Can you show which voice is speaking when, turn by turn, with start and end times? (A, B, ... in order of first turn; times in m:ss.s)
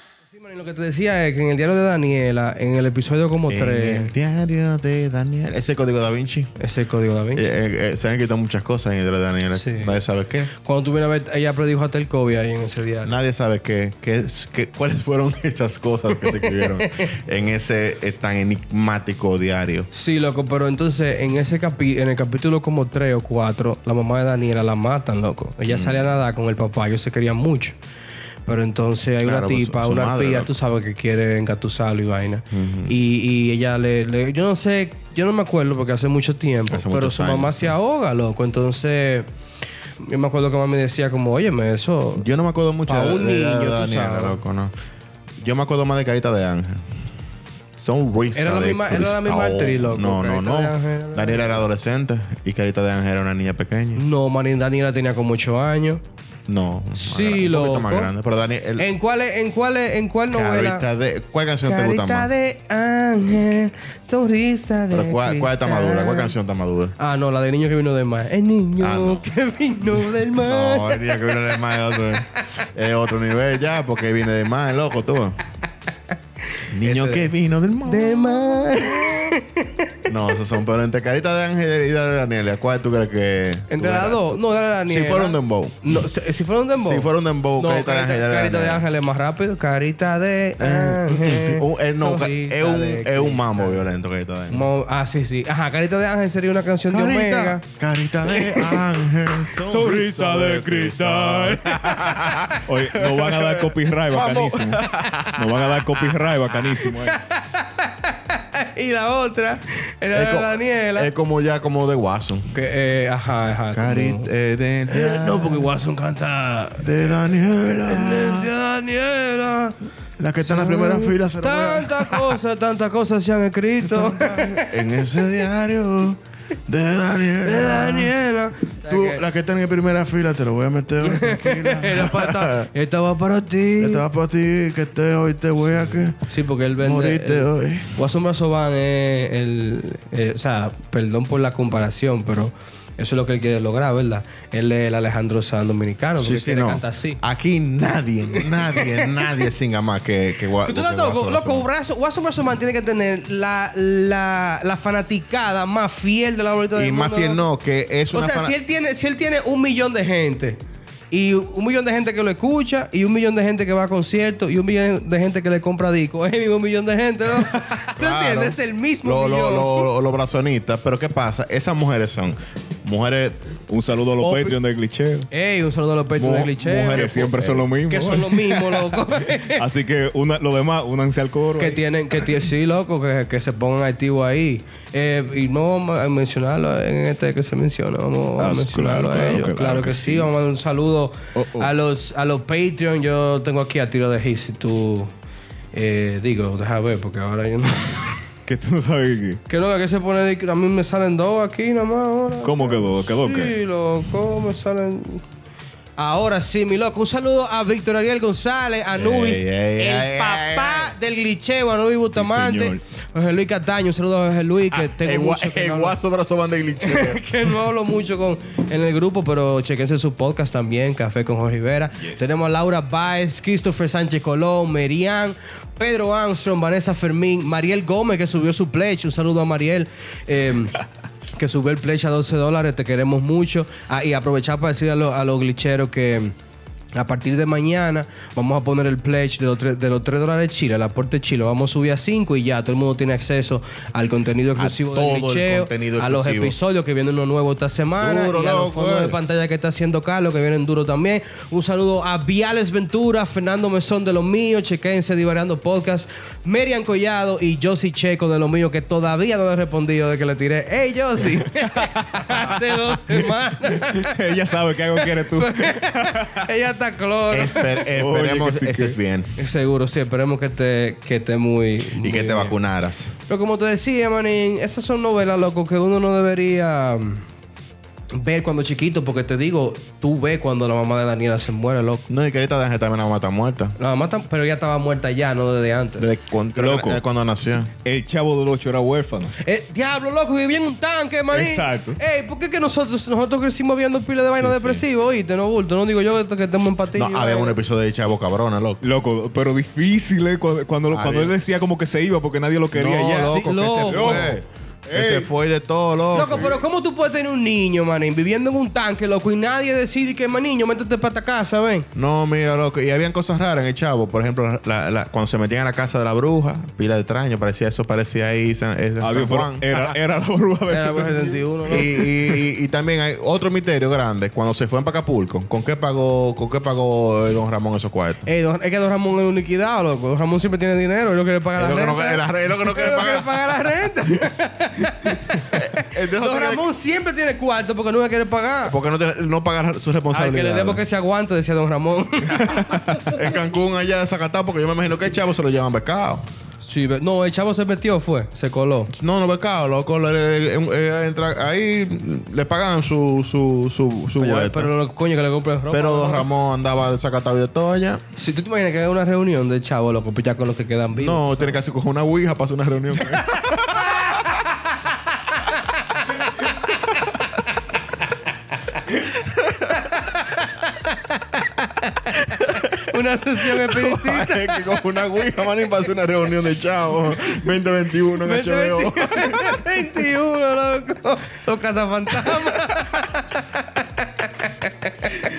0:00.3-0:04.1 A
0:03.5-0:06.5 B
0:06.6-0:07.5 A
0:07.4-0:10.5 B
0:09.5-0:10.0 A
0:10.6-0:13.1 A
0:13.0-0:19.9 B
0:16.2-0:17.1 A
0:19.9-0:27.8 A
0:25.7-0:26.1 B
0:28.5-0:39.3 A
0:29.2-0:30.5 B
0:32.5-0:33.0 B
0:36.7-0:37.7 B
0:40.0-0:42.3 A
0:42.2-0:44.7 B
0:42.9-0:44.4 A
0:45.4-0:46.8 B
0:47.8-0:54.0 B
0:48.4-0:51.6 A
0:54.0-0:56.0 A
0:56.5-0:58.9 B
0:57.0-0:58.1 A
0:58.8-1:00.9 A
1:00.3-1:02.3 B
1:01.6-1:06.3 A
1:04.9-1:07.0 B
1:07.0-1:11.2 A
1:08.8-1:09.2 B
1:10.4-1:15.4 B
1:16.6-1:17.3 A
1:16.7-1:18.8 B
1:17.8-1:20.1 A
1:20.1-1:25.8 B
1:23.7-1:33.8 A
1:26.8-1:28.9 B
1:30.6-1:34.7 B
1:34.5-1:37.6 A
1:36.9-1:46.2 B
1:38.3-1:38.8 A
1:39.6-1:42.4 A
1:42.7-1:47.2 C
1:46.6-1:51.1 A
1:50.1-1:52.6 B
1:52.5-1:54.3 A
1:53.7-1:55.7 B
1:54.9-1:57.0 A
1:56.8-1:58.5 B
1:57.8-1:59.8 A
2:00.2-2:02.4 B
2:00.4-2:04.8 A
2:03.8-2:08.1 B
2:07.4-2:09.2 A
2:08.9-2:12.7 B
2:11.0-2:14.0 A
2:13.8-2:16.3 B
2:15.7-2:27.2 A
2:16.8-2:18.0 B
2:26.2-2:31.7 B
2:28.3-2:29.1 A
2:30.6-2:37.4 A
2:36.8-2:38.5 B
2:38.1-2:40.6 A
2:41.1-2:49.9 A
2:48.0-2:53.4 B
2:53.7-2:55.3 C
2:54.2-2:54.6 B
2:55.3-2:57.0 A
2:56.2-2:57.7 B
2:56.8-3:01.8 C
2:57.9-2:59.6 A
3:01.6-3:15.1 A
3:08.4-3:10.3 C
3:11.4-3:11.7 C
3:15.7-3:18.2 A
3:18.5-3:19.4 C
3:19.5-3:25.2 A
3:22.4-3:23.6 C
3:26.0-3:36.0 A
3:29.0-3:30.9 B
3:32.1-3:32.8 C
3:34.7-3:37.2 B
3:36.8-3:50.8 A
3:42.0-3:42.3 C
3:51.4-3:56.4 A
3:57.0-4:24.2 A
4:04.6-4:06.6 B
4:08.0-4:09.2 B
4:23.1-4:26.5 C
4:25.0-4:27.9 A
4:27.3-4:29.4 B
4:27.9-4:29.0 C
4:29.4-4:32.6 A
4:32.0-4:33.1 B
4:33.3-4:37.2 A
4:38.1-4:42.1 A
4:42.1-4:43.7 B
4:43.8-4:46.1 A
4:46.0-4:47.7 B
4:46.6-4:47.0 C
4:47.8-4:49.3 C
4:49.4-4:57.6 A
4:51.3-4:52.0 C
4:54.5-4:54.8 C
4:56.9-4:58.8 B
4:58.8-5:05.3 C
5:00.9-5:01.4 B
5:02.7-5:06.6 B
5:03.2-5:04.3 A
5:06.1-5:11.9 A
5:06.2-5:06.5 C
5:12.0-5:20.0 B
5:19.0-5:21.4 C
5:20.7-5:22.1 A
5:21.7-5:28.3 B
5:28.3-5:38.8 A
5:31.6-5:33.4 B
5:35.5-5:36.7 B
5:38.6-5:40.8 B
5:40.1-5:43.2 A
5:43.1-5:46.2 B
5:46.6-5:48.9 A
5:48.9-5:54.7 B
5:54.2-5:56.3 A
5:55.7-5:58.0 B
5:58.2-6:01.6 A
6:01.0-6:04.4 B
6:09.2-6:09.8 B
6:09.8-6:14.6 A
6:12.3-6:12.9 B
6:13.4-6:19.6 B
6:18.2-6:23.6 A